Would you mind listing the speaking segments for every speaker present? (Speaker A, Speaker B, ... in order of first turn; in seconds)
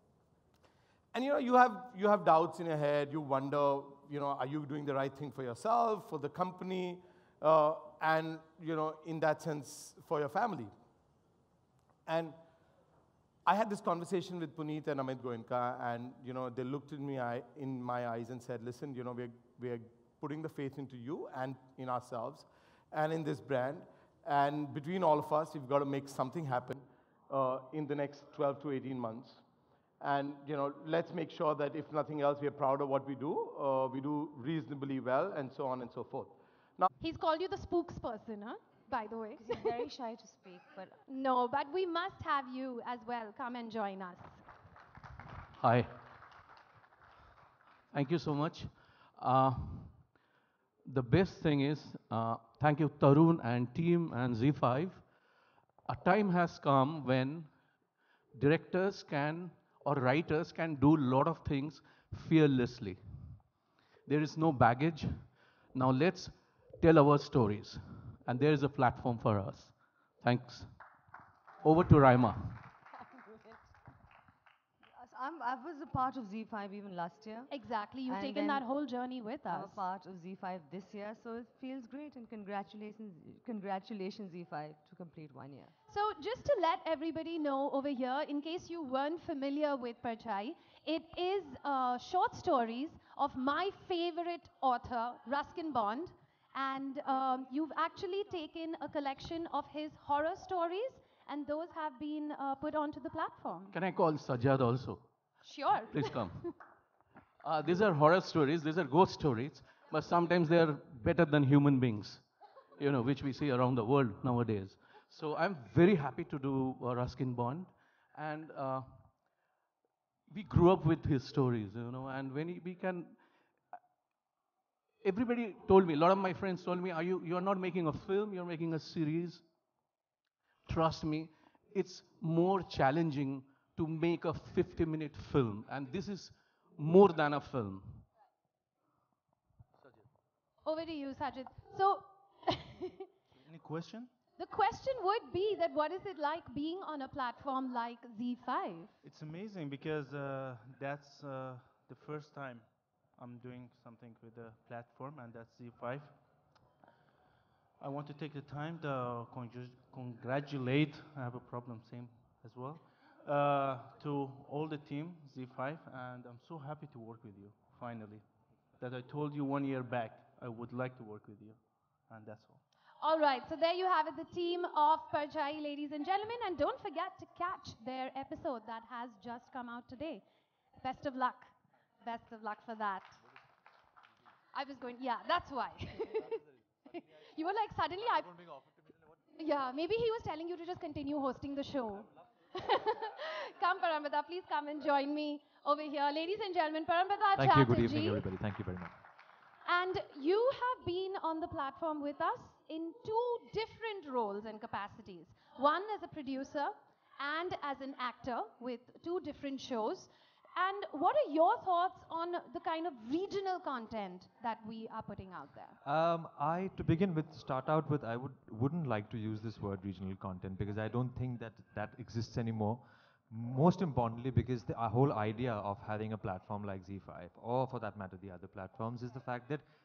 Speaker A: 1.1-10.7, 12.1-12.4, 13.4-29.4, 30.0-36.9
Speaker B: 37.0-39.8, 41.1-44.4, 77.5-79.8, 85.9-103.7, 105.4-106.5, 140.6-143.1, 144.4-148.9, 173.0-180.2, 180.8-181.5, 182.0-183.2, 184.5-186.4, 187.2-188.5, 189.4-198.2, 199.7-215.8
Speaker C: 39.4-41.0, 75.0-77.5, 78.1-78.7, 79.5-85.7
Speaker D: 45.6-45.9, 47.9-50.1, 50.9-55.1, 55.9-57.6, 58.3-63.5, 64.1-70.7, 71.6-72.7, 103.7-105.1, 105.9-106.6, 107.4-119.2, 120.3-123.2, 125.0-129.4, 130.7-138.1
Speaker E: 143.4-144.1, 149.0-156.2, 157.8-168.3, 168.8-172.6
Speaker F: 197.4-199.0, 215.8-229.7